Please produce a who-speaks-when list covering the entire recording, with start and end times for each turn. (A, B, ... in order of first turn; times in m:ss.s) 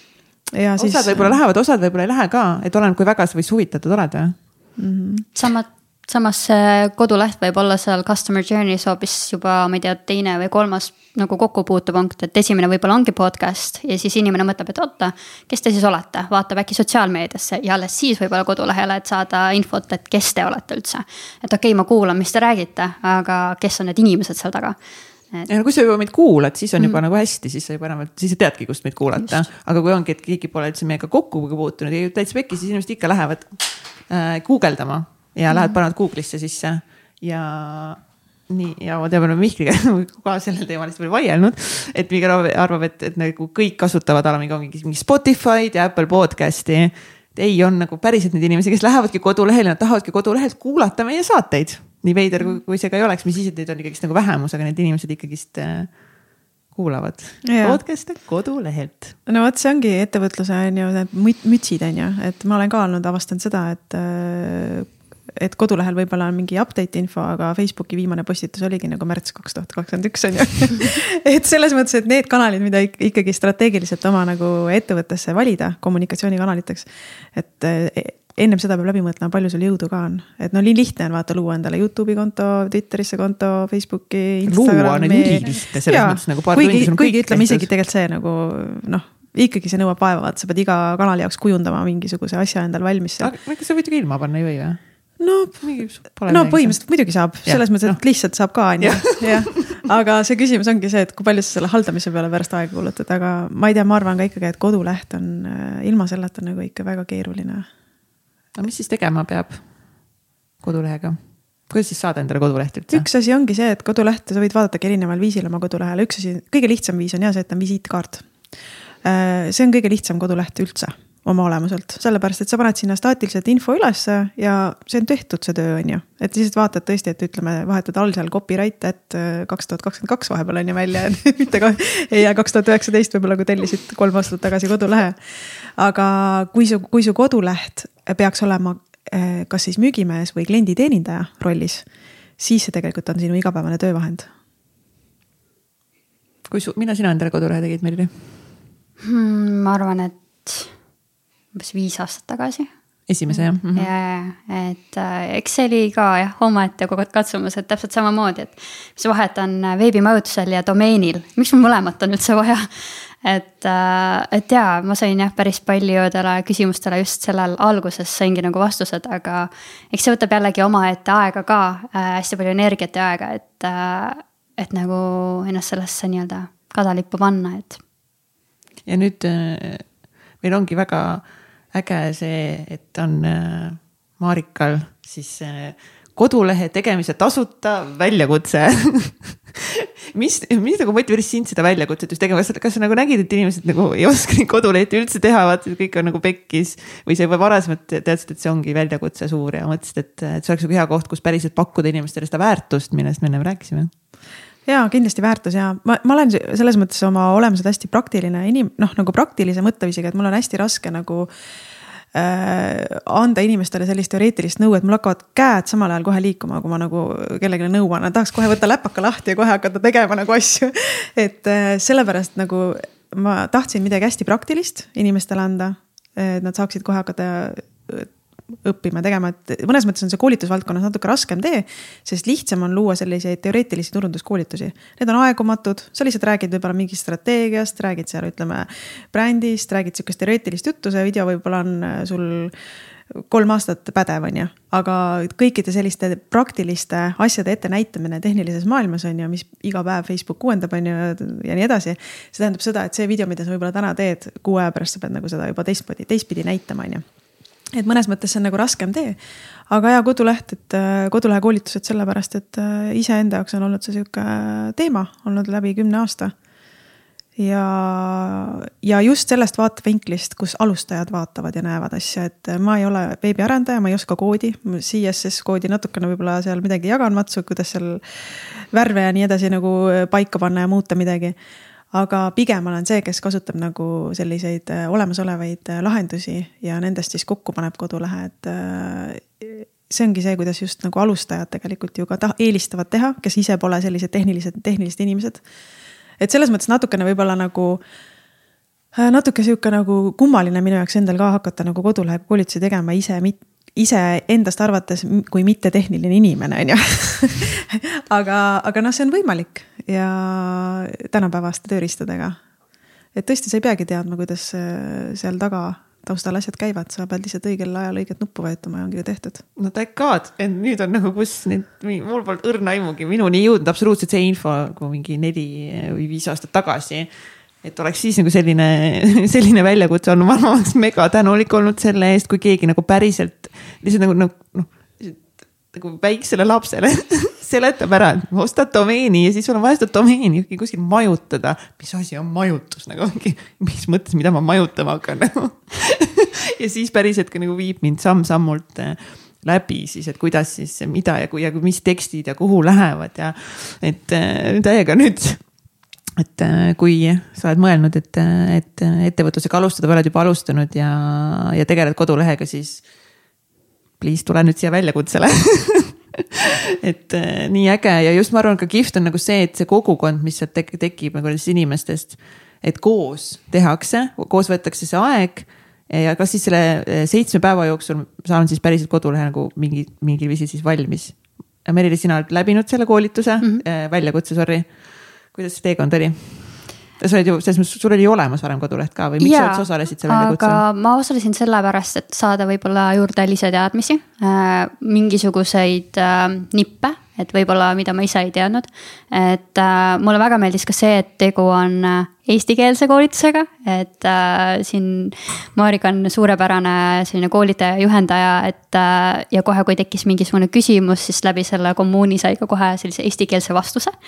0:00.6-0:01.4 A
0:00.8-0:04.4 B
0:04.8-0:05.2 A
0:05.3-0:24.8 C
0:25.5-0:55.9 B
0:35.5-0:35.8 C
0:56.7-0:59.2 B
0:57.4-0:57.8 A
0:59.3-1:33.3 A
1:24.5-1:27.7 B
1:33.2-1:34.8 B
1:35.2-1:35.7 A
1:35.6-1:36.8 B
1:36.3-1:47.7 A
1:37.4-1:38.0 B
1:38.8-1:39.8 B
1:48.6-1:49.6 B
1:50.6-1:53.0 B
1:52.9-1:58.3 A
1:59.0-2:21.8 A
2:22.4-2:24.3 A
2:26.5-2:28.2 B
2:29.0-2:30.7 C
2:31.5-2:32.7 C
2:33.1-2:33.9 B
2:33.7-2:57.8 C
2:58.8-2:59.8 B
3:00.4-3:23.9 B
3:24.6-3:31.3 A
3:32.1-4:02.5 A
4:03.1-4:17.0 A
4:17.7-4:19.2 A
4:19.7-4:26.3 A
4:27.4-4:41.4 A
4:41.9-4:55.4 A
4:56.2-4:57.8 A
4:58.9-5:12.4 A
5:13.1-5:19.4 A
5:19.6-5:27.1 B
5:27.6-5:55.4 B
5:56.2-6:02.8 B
6:04.0-6:24.7 B
6:25.3-6:30.6 B
6:29.2-6:53.9 C